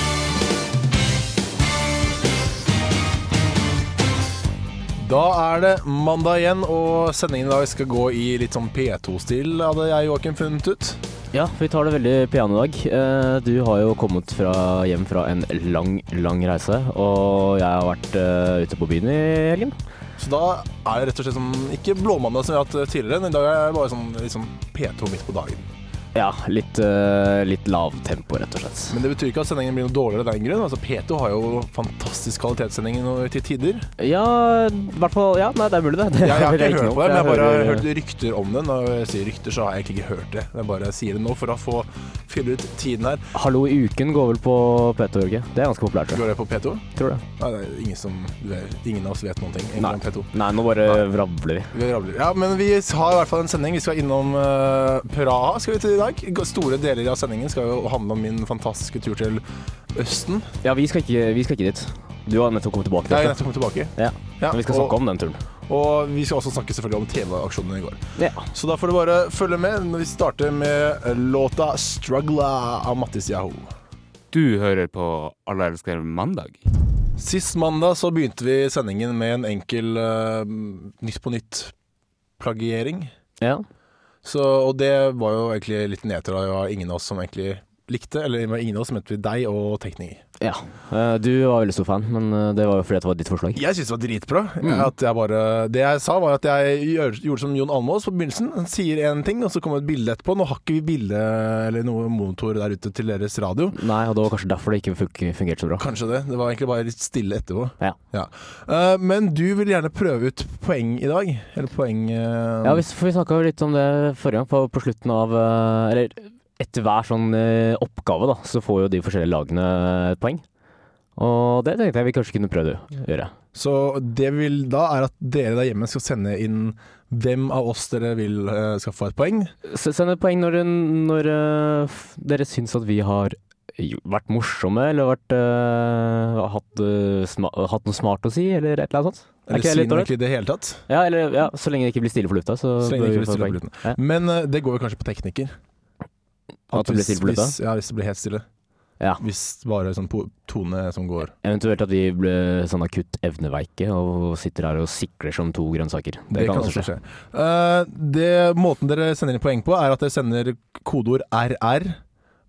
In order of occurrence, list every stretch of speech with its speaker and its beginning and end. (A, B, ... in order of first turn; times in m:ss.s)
0:05.0-0:11.0 A
0:11.3-0:19.8 B
0:20.2-0:25.7 A
0:26.2-0:29.0 B
0:28.9-0:33.9 A
0:34.0-0:37.9 B
0:36.2-0:43.2 A
0:43.3-0:46.2 B
0:46.1-0:50.3 A
0:47.0-0:47.2 B
0:49.8-0:51.7 B
0:51.7-1:00.5 A
1:00.6-1:03.4 B
1:03.1-1:05.0 A
1:04.0-1:05.4 B
1:05.7-1:13.7 A
1:08.2-1:08.5 B
1:14.3-1:16.6 C
1:17.2-1:21.7 A
1:22.4-1:23.1 A
1:24.2-1:30.2 A
1:30.4-1:33.6 B
1:33.6-1:43.8 A
1:34.6-1:34.9 B
1:43.7-1:45.9 B
1:45.8-1:52.8 A
1:52.6-2:00.4 B
2:01.2-2:03.3 B
2:03.6-2:09.5 A
2:09.7-2:20.1 B
2:19.5-2:20.8 A
2:20.9-2:24.0 B
2:22.8-2:25.5 A
2:26.7-2:28.5 A
2:26.7-2:27.6 B
2:29.2-2:31.3 A
2:31.4-2:36.9 B
2:36.3-2:42.0 A